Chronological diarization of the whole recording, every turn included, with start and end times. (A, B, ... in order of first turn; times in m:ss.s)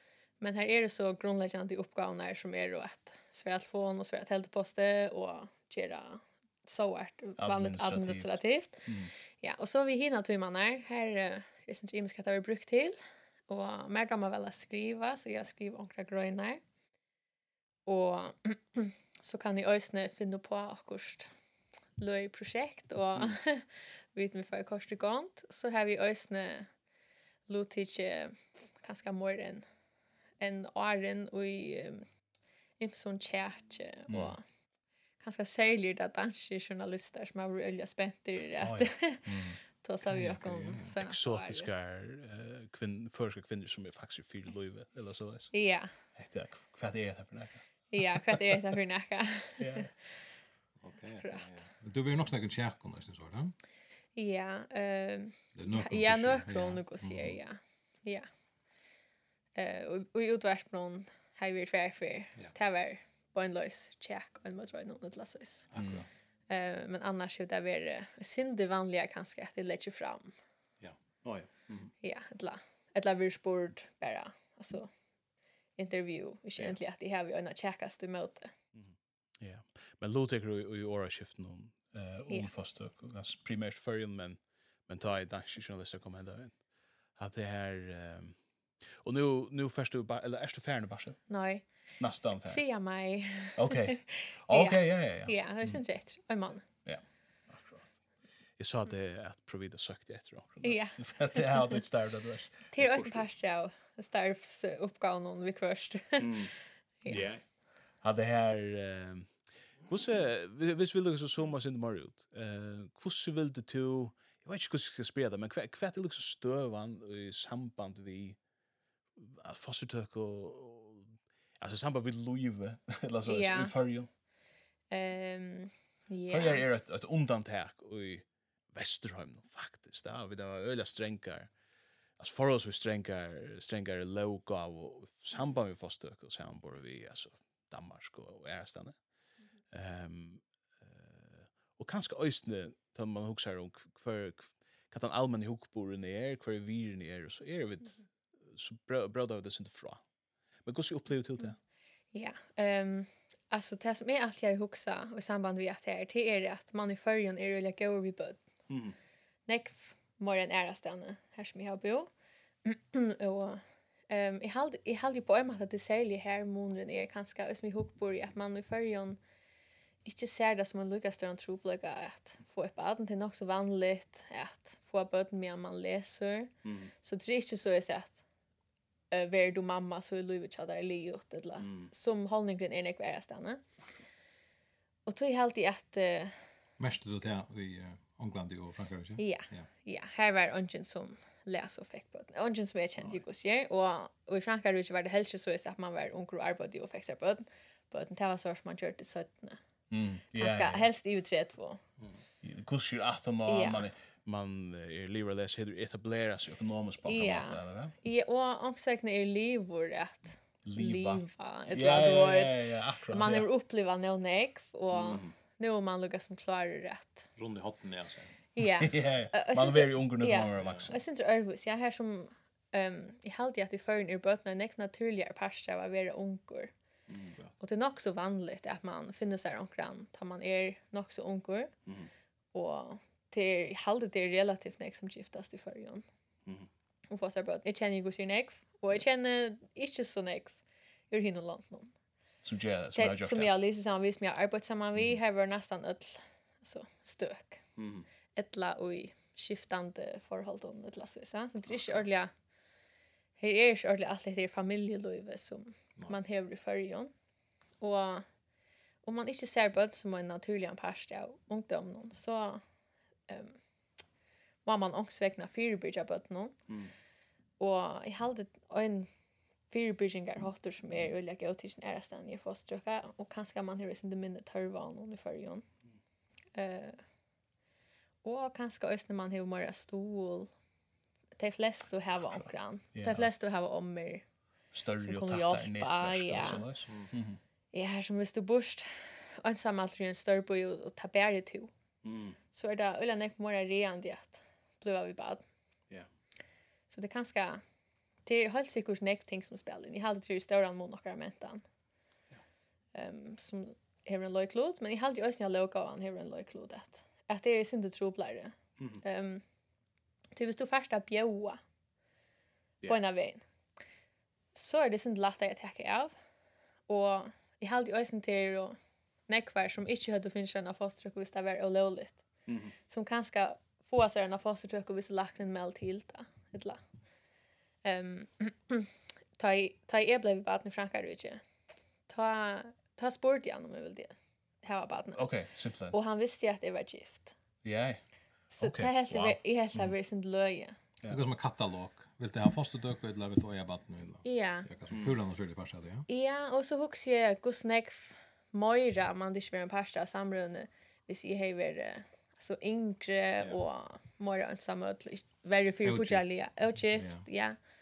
0:00.4-0:16.6 A
0:07.4-0:09.1 B
0:17.8-0:21.3 A
0:22.0-0:26.7 A
0:27.5-0:29.6 A
0:30.4-0:32.0 A
0:32.8-0:34.4 A
0:34.1-0:34.4 B
0:35.2-0:41.7 A
0:38.6-0:39.6 B
0:40.1-0:40.9 C
0:41.0-0:45.5 B
0:45.5-0:45.9 A
0:46.2-0:48.6 B
0:47.9-0:49.8 A
0:49.6-0:49.9 B
0:50.8-0:53.5 C
0:51.2-0:51.5 A
0:54.2-0:58.3 A
0:55.5-0:57.4 C
0:59.6-1:05.7 A
1:05.7-1:06.1 C
1:05.8-1:06.0 B
1:06.5-1:10.3 A
1:11.2-1:11.9 B
1:12.0-1:14.9 A
1:15.8-1:18.5 A
1:18.7-1:26.6 B
1:27.1-1:28.4 B
1:28.9-1:31.2 B
1:31.3-1:31.6 A
1:32.0-1:32.6 B
1:32.4-1:36.6 A
1:33.6-1:35.8 B
1:36.8-1:38.0 B
1:38.6-1:43.3 B
1:40.6-1:41.8 A
1:42.7-1:46.5 A
1:46.2-1:46.5 B
1:47.0-1:47.3 A
1:47.1-1:47.4 B
1:48.0-1:58.4 B
1:59.2-2:04.1 B
2:03.2-2:03.7 A
2:04.9-2:06.6 A
2:06.3-2:11.5 B
2:12.2-2:19.0 B
2:19.7-2:30.0 B
2:30.6-2:31.6 B
2:32.1-2:38.4 A
2:38.7-2:39.0 B
2:39.5-2:42.1 A
2:42.6-2:49.2 A
2:50.0-2:58.2 A
2:56.6-2:56.9 B
2:59.1-3:03.6 A
3:01.6-3:01.9 B
3:05.0-3:06.4 A
3:06.8-3:09.7 C
3:09.2-3:19.6 A
3:19.9-3:20.9 B
3:20.4-3:21.8 A
3:22.4-3:27.9 B
3:23.5-3:23.9 A
3:27.0-3:37.3 A
3:30.6-3:33.4 B
3:34.9-3:35.3 B
3:37.4-3:38.4 C
3:38.6-3:46.7 A
3:38.6-3:41.0 B
3:47.1-3:47.4 B
3:47.6-3:51.7 A
3:51.8-3:52.1 B
3:52.5-3:56.0 A
3:57.1-4:00.6 A
4:01.1-4:01.9 A
4:02.4-4:03.5 B
4:02.9-4:07.6 A
4:07.8-4:08.0 B
4:08.3-4:12.3 A
4:13.4-4:17.1 A
4:17.8-4:18.2 A
4:19.0-4:22.6 A
4:23.3-4:23.6 A
4:24.6-4:26.6 A
4:27.6-4:29.1 A
4:29.7-4:35.6 A
4:36.5-4:37.0 A
4:38.2-4:40.5 A
4:41.4-4:44.2 A
4:42.3-4:43.3 B
4:44.7-4:47.4 B
4:45.0-4:46.6 A
4:46.9-4:47.1 C
4:47.7-4:51.7 A
4:52.0-4:52.4 B
4:52.5-4:55.4 A
4:56.9-4:57.6 A
4:58.2-5:01.6 A
5:02.9-5:09.4 A
5:10.3-5:11.6 A
5:12.8-5:13.4 A
5:14.5-5:16.1 A
5:16.9-5:18.8 A
5:19.3-5:22.2 A
5:22.5-5:22.7 B
5:22.8-5:26.8 A
5:27.8-5:31.4 A
5:32.1-5:35.3 A
5:35.1-5:36.0 B
5:35.9-5:37.3 A
5:37.6-5:38.0 B
5:38.5-5:40.8 A
5:38.6-5:39.9 B
5:41.1-5:46.1 C
5:44.2-5:44.7 A
5:44.9-5:45.2 B
5:46.1-5:57.6 A
5:55.8-5:56.2 C
5:56.9-5:57.2 C